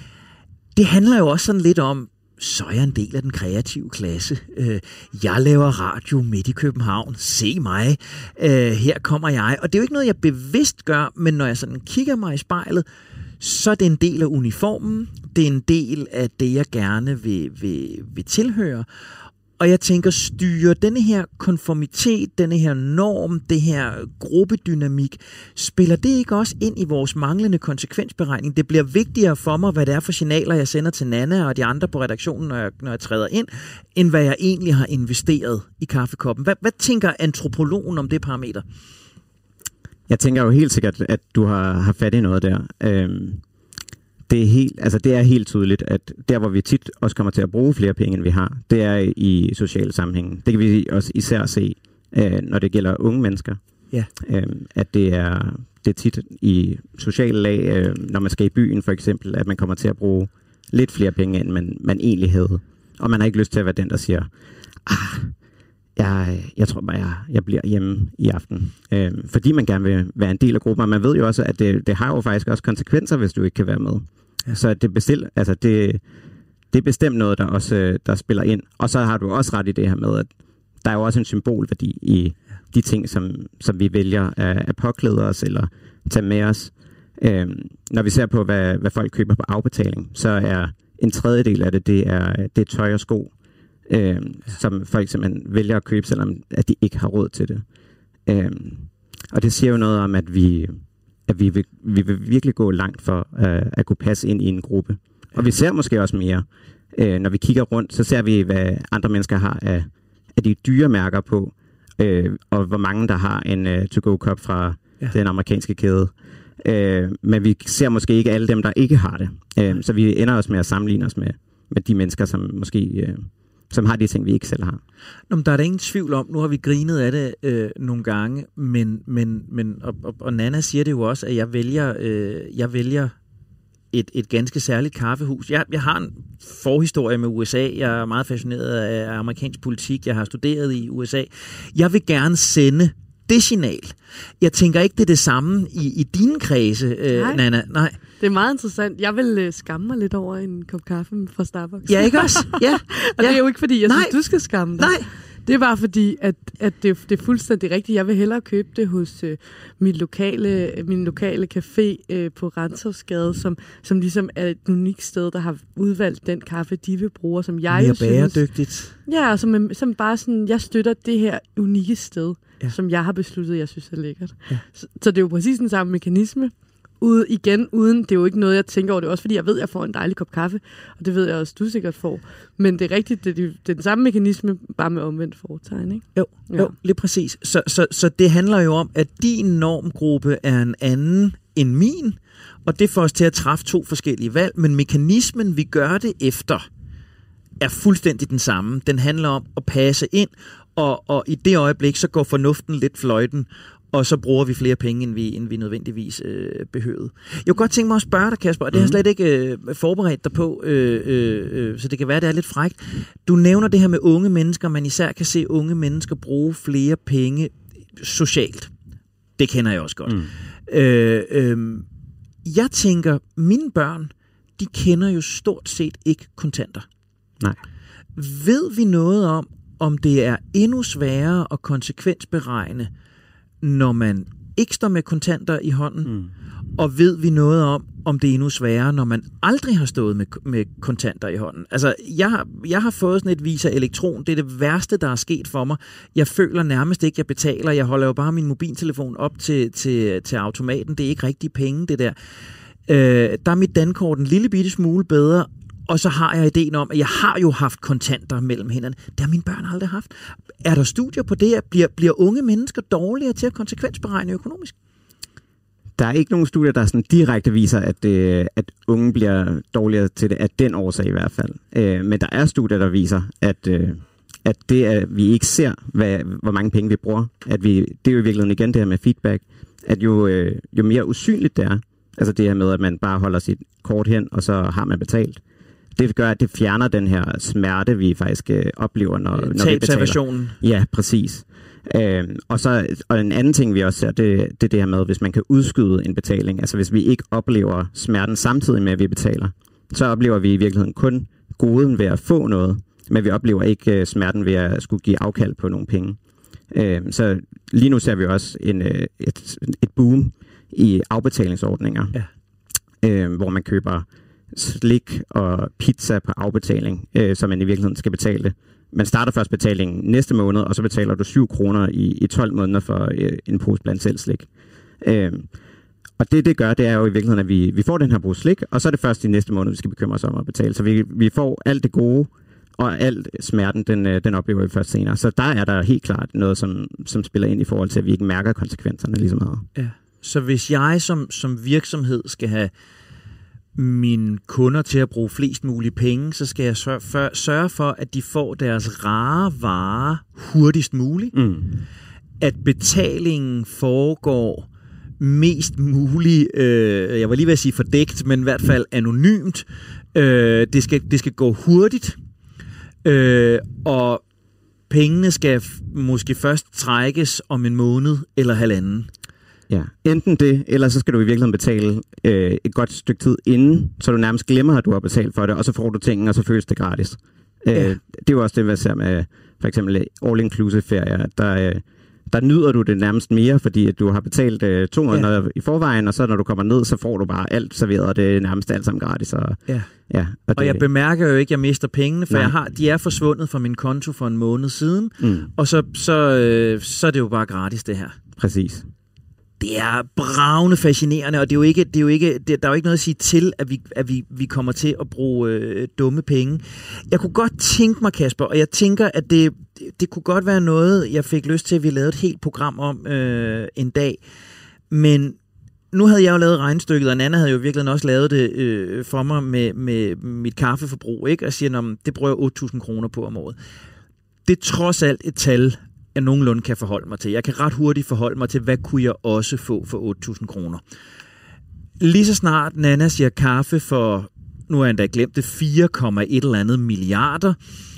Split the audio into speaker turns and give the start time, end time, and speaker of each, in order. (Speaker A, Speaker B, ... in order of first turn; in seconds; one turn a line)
Speaker A: 0.7-12.8
Speaker A: 13.4-18.9
Speaker A: 19.6-38.6
Speaker B: 40.1-43.4
Speaker B: 44.3-53.6
Speaker B: 54.2-64.3
Speaker B: 64.8-65.3
Speaker B: 66.0-76.0
Speaker B: 76.7-80.3
Speaker B: 80.8-93.3
Speaker B: 93.9-97.6
Speaker B: 98.2-124.8
Speaker A: 125.3-133.1
Speaker A: 133.9-148.0
Speaker C: 147.1-147.4
Speaker C: 148.2-168.4
Speaker A: 151.9-154.2
Speaker A: 154.8-155.1
Speaker A: 167.7-168.9
Speaker C: 169.1-186.7
Speaker A: 186.1-196.7
Speaker A: 197.6-218.7
Speaker B: 208.7-209.0
Speaker A: 219.4-221.9
Speaker A: 222.4-226.8
Speaker A: 228.2-232.9
Speaker A: 233.6-236.2
Speaker B: 236.1-236.3
Speaker A: 236.8-252.1
Speaker A: 252.9-264.7
Speaker B: 266.0-285.4
Speaker B: 285.9-306.2
Speaker A: 289.4-290.6
Speaker B: 306.7-312.1
Speaker B: 313.0-324.5
Speaker B: 325.0-325.5
Speaker B: 326.2-339.7
Speaker A: 339.8-342.7
Speaker A: 343.8-351.3
Speaker B: 351.3-351.8
Speaker A: 352.4-354.7
Speaker A: 355.2-362.2
Speaker A: 363.0-364.2
Speaker A: 364.9-369.1
Speaker B: 369.7-390.8
Speaker A: 390.6-398.1
Speaker B: 395.2-395.5
Speaker B: 398.4-398.9
Speaker A: 399.6-414.2
Speaker A: 414.9-415.4
Speaker A: 415.9-423.6
Speaker A: 424.4-430.8
Speaker A: 432.0-437.6